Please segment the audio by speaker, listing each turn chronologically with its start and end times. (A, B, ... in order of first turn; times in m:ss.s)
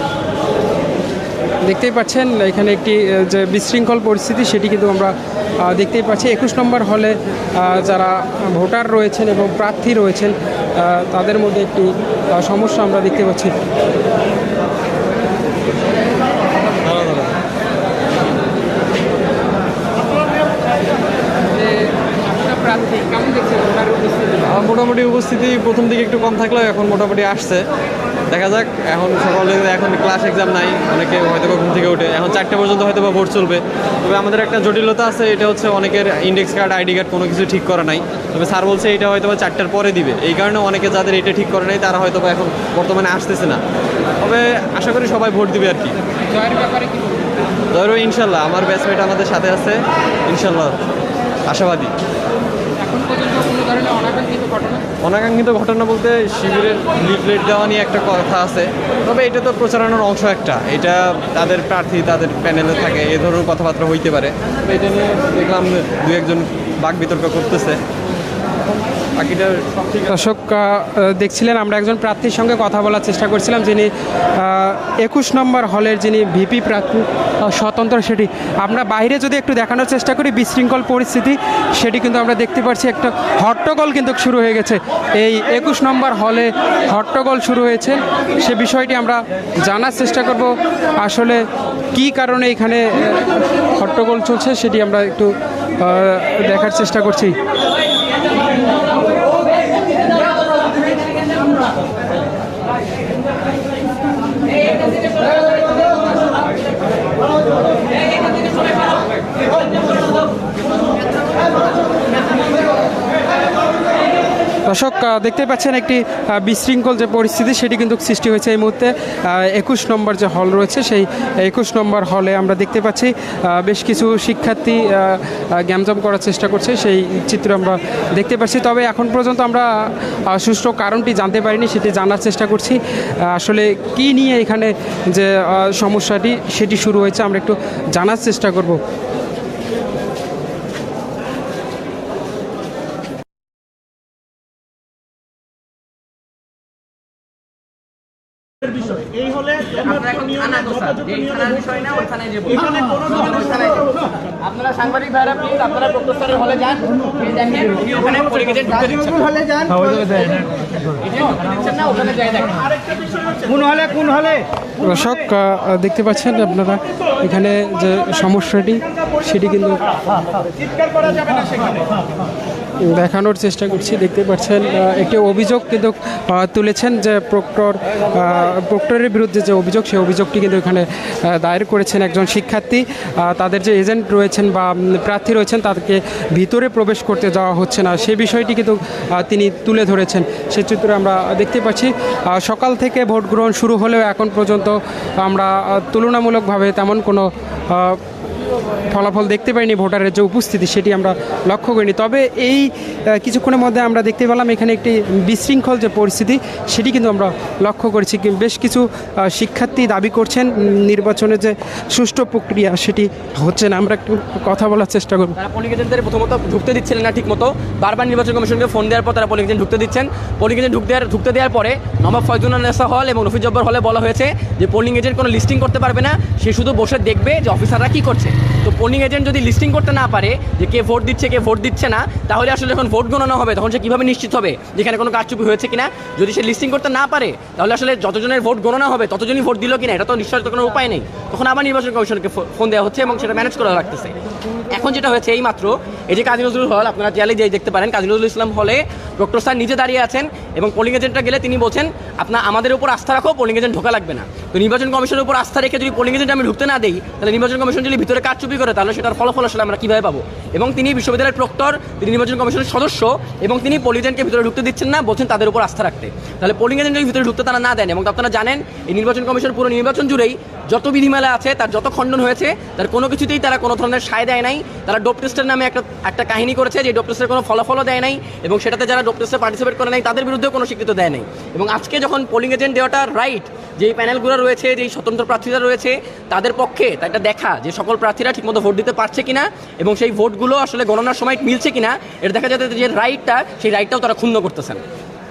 0:01.6-0:13.5 A
0:16.8-0:17.4 B
0:21.5-0:24.4 A
0:24.4-0:27.6 B
0:28.3-0:43.6 B
0:44.2-0:46.0 B
0:46.3-0:47.3 A
0:47.7-0:50.8 B
0:51.5-0:51.9 B
0:52.8-0:54.8 A
0:55.0-1:07.8 B
1:09.2-1:10.1 B
1:10.1-1:37.4 A
1:54.7-2:09.7 A
2:10.3-2:18.8 A
2:29.6-2:39.0 C
2:38.7-2:40.3 D
2:41.0-2:42.8 C
2:43.4-2:44.4 D
2:44.8-2:49.8 A
2:52.8-3:18.0 A
3:18.9-3:35.3 A
3:35.4-4:04.1 C
4:04.7-4:54.8 C